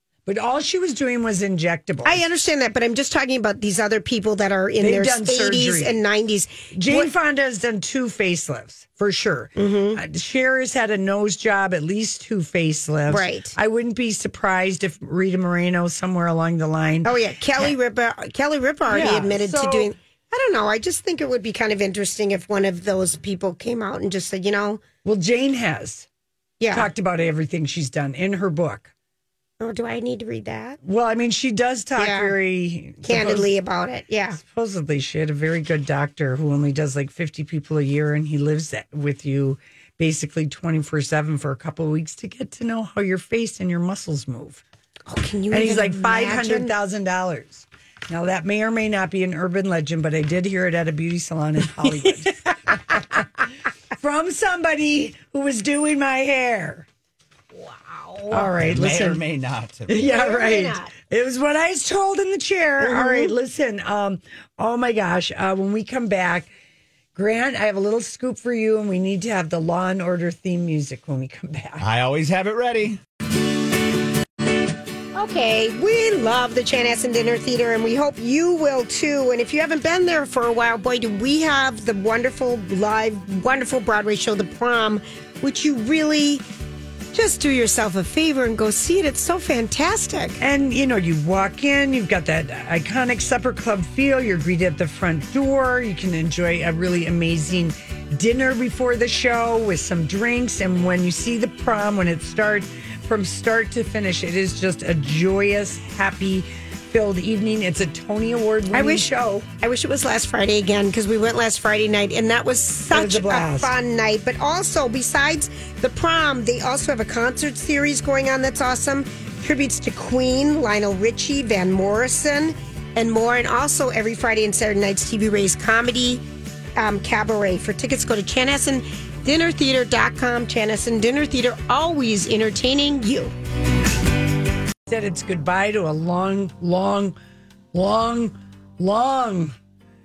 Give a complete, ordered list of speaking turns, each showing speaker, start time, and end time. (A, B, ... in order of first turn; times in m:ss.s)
0:00.3-0:02.2 A
0:02.0-0:07.1 B
0:04.8-0:06.0 A
0:06.8-0:17.7 A
0:09.6-0:10.0 B
0:13.1-0:13.6 B
0:17.0-0:24.8 B
0:18.9-0:19.9 A
0:25.0-0:26.1 A
0:26.6-0:26.9 B
0:26.7-0:28.9 A
0:29.6-0:30.8 B
0:30.8-0:33.5 A
0:32.0-0:32.3 B
0:33.0-0:34.4 B
0:34.4-0:44.6 A
0:45.1-0:46.7 B
0:45.5-0:53.3 A
0:51.8-0:52.2 B
0:54.0-0:56.9 A
0:57.6-0:58.5 B
0:58.3-0:59.2 A
0:58.6-0:59.9 C
0:59.9-1:06.5 A
1:00.0-1:00.9 B
1:02.8-1:03.3 B
1:07.2-1:11.8 A
1:11.8-1:13.0 C
1:15.2-1:26.4 B
1:27.1-1:30.4 B
1:30.4-1:49.5 A
1:48.7-2:06.2 B
1:52.9-1:53.7 A
2:06.8-2:13.3 B
2:14.9-2:17.2 A
2:17.7-2:19.5 A